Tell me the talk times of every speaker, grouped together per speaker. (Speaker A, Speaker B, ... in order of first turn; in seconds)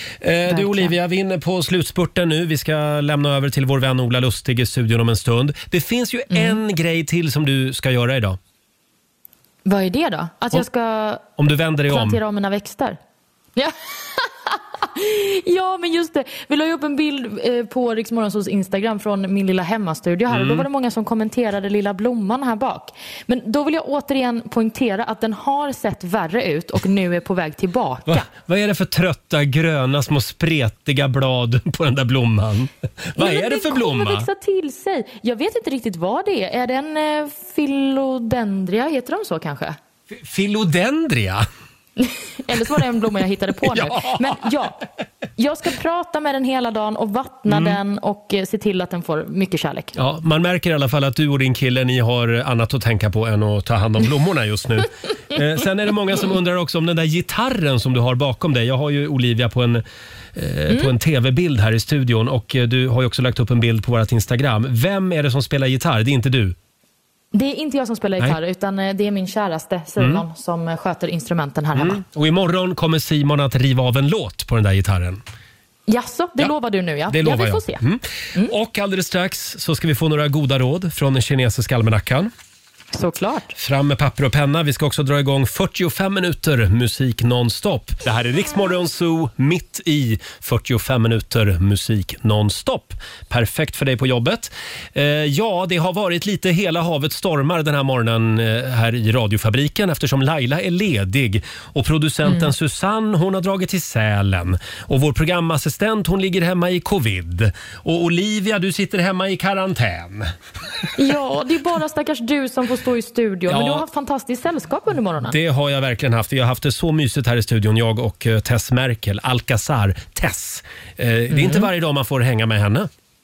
Speaker A: 0.2-8.4, 11.4-12.2, 20.3-20.7, 28.1-34.3, 40.1-41.5, 43.6-44.4, 47.5-47.8, 50.0-59.8, 60.4-66.6, 70.0-70.2, 71.8-75.2, 77.1-82.3, 83.6-110.3, 113.5-113.8, 115.2-122.9
Speaker B: 0.5-0.9, 6.3-6.6, 9.7-11.3, 11.9-13.0, 13.6-28.2, 33.2-39.8, 42.0-44.8, 45.4-49.9, 67.3-72.0, 75.9-77.8, 82.9-83.5, 102.3-102.5, 111.0-115.4, 121.3-121.7